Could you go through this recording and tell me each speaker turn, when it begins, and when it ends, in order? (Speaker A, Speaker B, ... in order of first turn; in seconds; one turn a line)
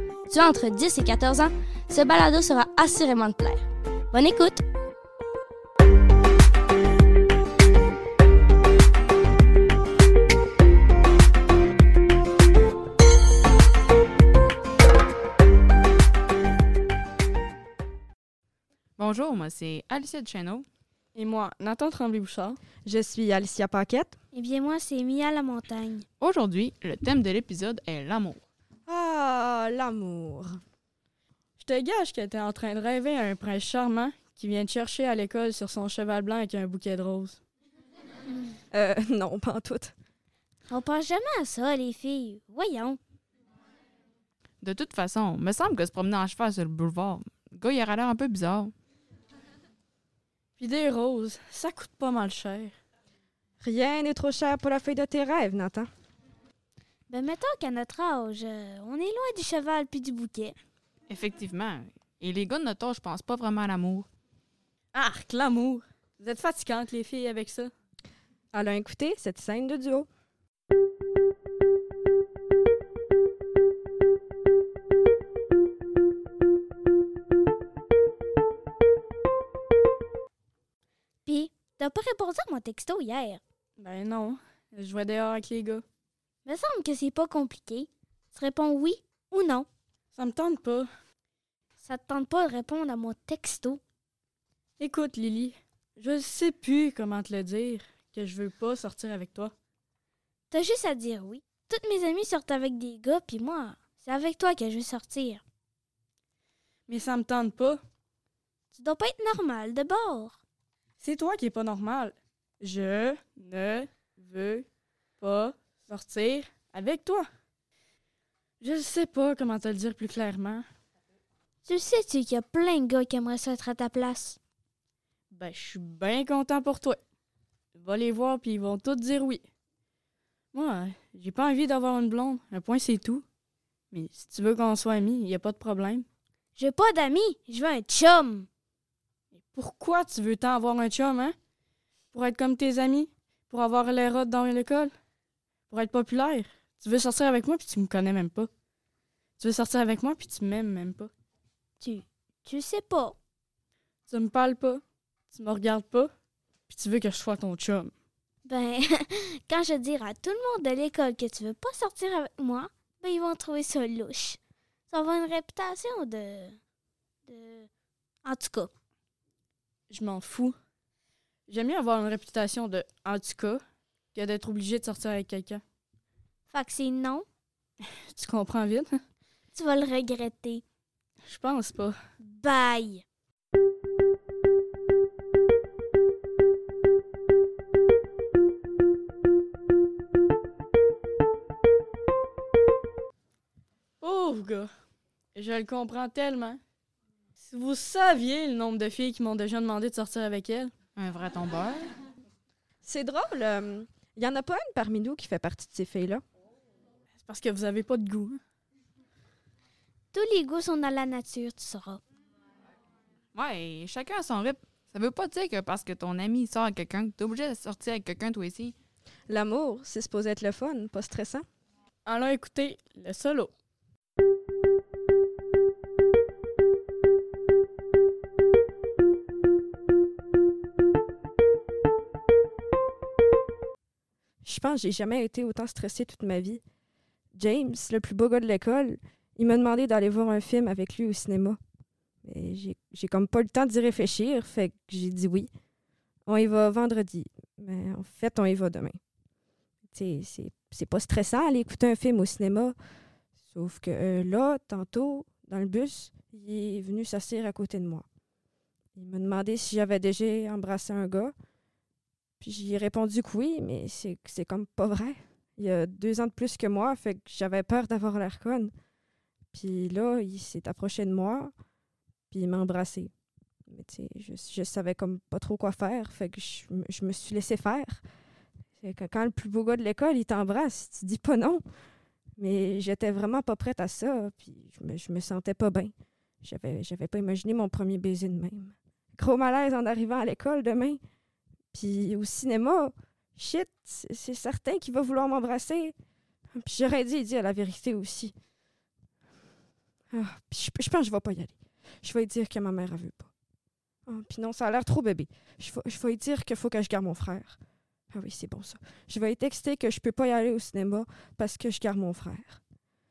Speaker A: 0.3-4.6
Speaker B: 19.0-20.6
Speaker C: 21.1-22.6
Speaker D: 22.8-24.1
Speaker E: 24.3-26.0
Speaker B: 26.2-28.4
Speaker D: 28.9-30.6
Speaker C: 31.6-37.4
Speaker D: 38.7-39.9
Speaker E: 40.7-43.0
Speaker B: 44.6-48.7
Speaker C: 50.6-52.7
Speaker D: 53.6-55.9
Speaker E: 57.1-60.5
Speaker B: 61.1-64.1
Speaker C: 64.9-67.7
Speaker D: 68.5-70.1
Speaker E: 81.2-83.4
Speaker C: 83.8-85.8
Speaker E: 86.5-89.7
Speaker C: 90.1-90.9
Speaker E: 91.8-93.8
Speaker C: 94.8-99.5
Speaker E: 100.5-105.4
Speaker C: 106.9-107.8
Speaker E: 108.7-110.3
Speaker C: 111.0-114.7
Speaker C: 115.2-117.2
Speaker C: 118.6-120.7
Speaker E: 121.7-124.4
Speaker C: 125.3-127.0
Speaker C: 127.8-129.4
Speaker C: 130.5-133.2
Speaker C: 133.9-136.1
Speaker E: 136.6-138.5
Speaker C: 139.3-141.3
Speaker C: 142.1-144.9
Speaker C: 145.7-148.5
Speaker C: 149.4-151.1
Speaker E: 151.8-153.2
Speaker C: 154.1-156.1
Speaker C: 156.7-157.9
Speaker E: 158.5-164.4
Speaker E: 164.9-166.6
Speaker E: 167.3-167.7
Speaker E: 168.2-168.7
Speaker C: 169.9-170.5
Speaker C: 171.5-173.6
Speaker C: 174.1-175.6
Speaker E: 176.5-177.2
Speaker C: 177.8-179.0
Speaker E: 179.5-180.6
Speaker C: 181.2-182.0
Speaker E: 182.2-183.0
Speaker C: 194.0-194.7
Speaker C: 195.3-196.6
Speaker C: 197.4-200.7
Speaker B: 200.9-201.8
Speaker D: 202.8-206.2
Speaker C: 207.2-208.4
Speaker E: 210.1-212.0
Speaker B: 213.3-218.7
Speaker D: 219.3-221.4
Speaker C: 222.1-223.5
Speaker D: 234.4-236.6
Speaker D: 237.3-241.6
Speaker D: 242.2-245.5
Speaker D: 246.2-249.0
Speaker D: 249.9-252.8
Speaker D: 253.5-258.1
Speaker D: 258.9-261.3
Speaker D: 262.4-268.7
Speaker D: 269.5-271.5
Speaker D: 272.3-273.1
Speaker D: 273.7-278.0
Speaker D: 278.8-281.6
Speaker D: 282.4-291.0
Speaker D: 291.7-295.9
Speaker D: 296.5-298.3
Speaker D: 300.1-303.3
Speaker D: 304.1-307.6
Speaker D: 308.1-312.6